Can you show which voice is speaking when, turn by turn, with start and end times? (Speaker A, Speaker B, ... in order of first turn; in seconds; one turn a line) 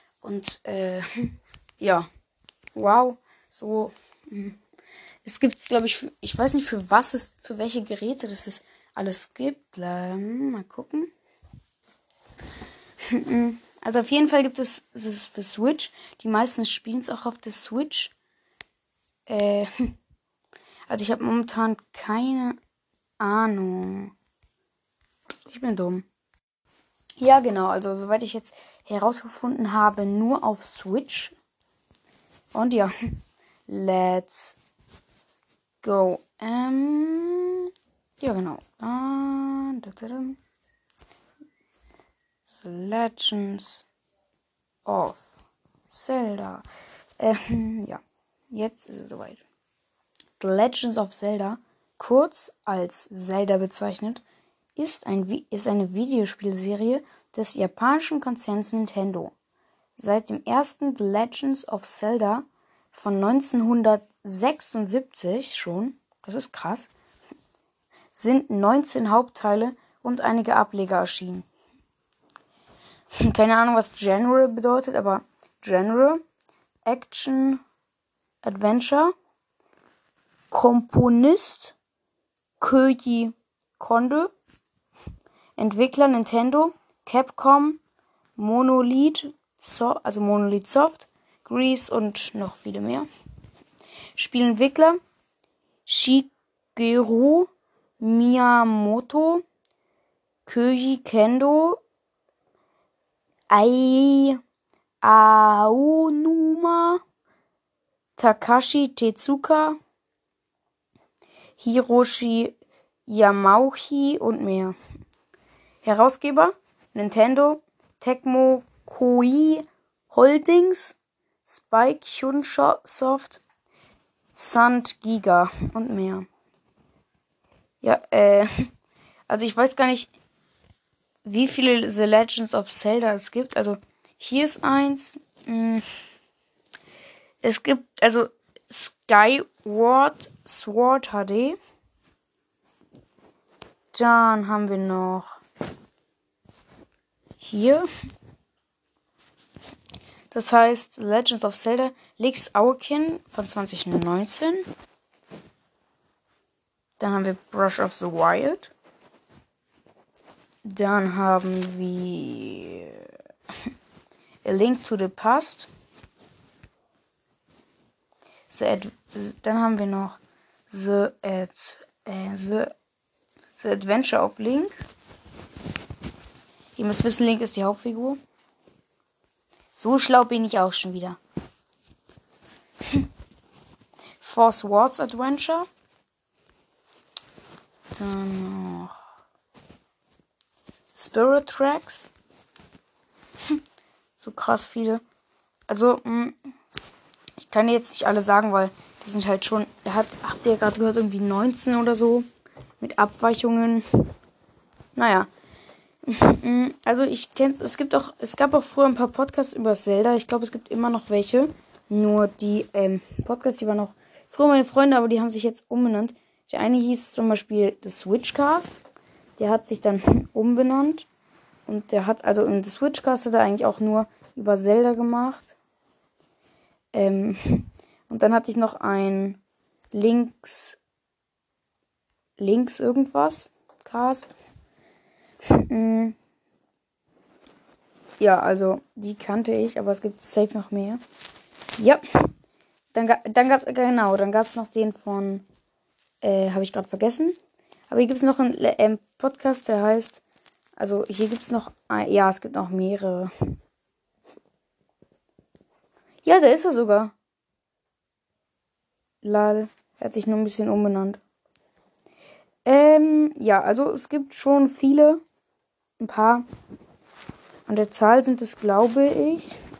Speaker A: 0.2-1.1
Speaker A: 1.8-2.1
Speaker A: 2.8-4.6
Speaker A: 5.2-11.1
Speaker A: 13.1-18.1
Speaker A: 19.3-19.9
Speaker A: 20.9-22.6
Speaker A: 23.2-24.1
Speaker A: 25.4-26.1
Speaker A: 27.2-31.4
Speaker A: 32.5-32.9
Speaker A: 33.7-34.6
Speaker A: 35.8-37.7
Speaker A: 38.2-40.4
Speaker A: 42.5-43.9
Speaker A: 44.9-45.2
Speaker A: 45.9-46.7
Speaker A: 47.2-49.4
Speaker A: 50.4-54.2
Speaker A: 54.8-59.3
Speaker A: 60.0-66.9
Speaker A: 68.1-71.5
Speaker A: 73.2-76.2
Speaker A: 76.8-77.6
Speaker A: 78.4-79.1
Speaker A: 80.5-81.8
Speaker A: 82.6-84.3
Speaker A: 85.6-87.8
Speaker A: 88.4-93.1
Speaker A: 94.2-95.0
Speaker A: 95.9-99.4
Speaker A: 100.5-101.8
Speaker A: 103.5-104.4
Speaker A: 105.0-107.0
Speaker A: 108.2-109.8
Speaker A: 111.6-114.8
Speaker A: 115.8-123.4
Speaker A: 124.3-126.3
Speaker A: 127.8-128.7
Speaker A: 129.3-130.1
Speaker A: 131.2-135.8
Speaker A: 137.4-141.6
Speaker A: 143.9-145.4
Speaker A: 147.4-147.9
Speaker A: 150.3-154.7
Speaker A: 157.0-158.7
Speaker A: 160.6-163.1
Speaker A: 164.4-165.7
Speaker A: 168.5-172.7
Speaker A: 173.6-174.8
Speaker A: 176.8-178.2
Speaker A: 179.8-181.2
Speaker A: 184.2-185.7
Speaker A: 187.9-188.9
Speaker A: 190.9-192.1
Speaker A: 194.2-195.0
Speaker A: 195.7-196.4
Speaker A: 197.4-202.3
Speaker A: 202.8-204.1
Speaker A: 204.9-205.3
Speaker A: 206.0-218.7
Speaker A: 219.4-221.1
Speaker A: 221.7-225.5
Speaker A: 226.9-229.4
Speaker A: 229.9-230.8
Speaker A: 232.4-234.3
Speaker A: 235.5-236.2
Speaker A: 238.2-241.0
Speaker A: 241.8-242.0
Speaker A: 242.9-245.4
Speaker A: 246.2-247.3
Speaker A: 247.9-250.2
Speaker A: 250.8-253.3
Speaker A: 256.2-257.1
Speaker A: 259.2-261.2
Speaker A: 262.6-265.2
Speaker A: 266.0-266.4
Speaker A: 267.7-269.6